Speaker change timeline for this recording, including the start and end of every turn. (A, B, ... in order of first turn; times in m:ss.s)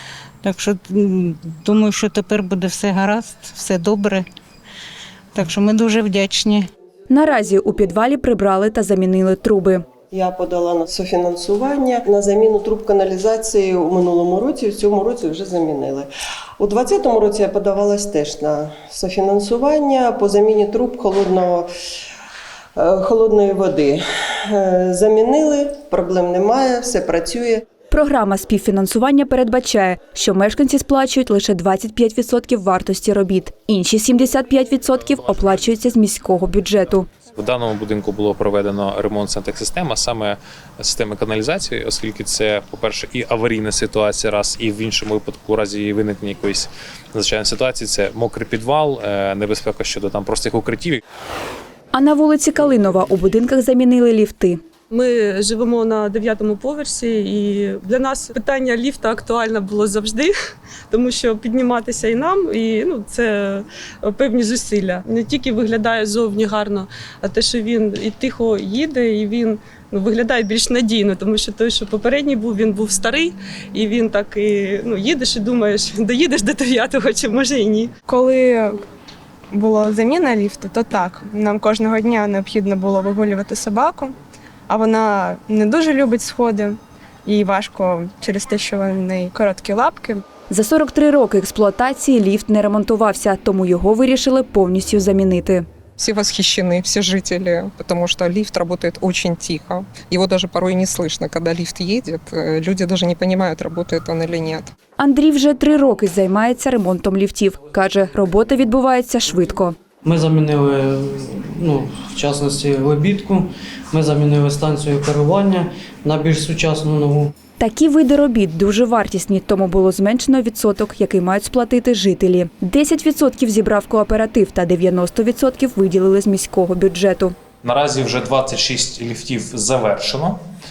0:00.4-0:04.3 A
0:05.4-0:06.7 A
0:07.1-0:09.8 B
0:10.1-0:21.7 C
0:22.8-0:27.6 C
0:27.9-0:37.1 B
0:37.4-0:51.0 D
0:51.9-0:54.6 B
0:54.9-1:00.3 E
1:00.9-1:17.9 E
1:18.1-1:18.8 F
1:19.5-1:24.2 F
1:24.7-1:30.2 F
1:30.5-1:35.6 B
1:36.0-1:44.7 G
1:45.0-1:49.8 B
1:50.0-1:57.3 H
1:57.6-2:07.4 B
2:07.6-2:10.4 D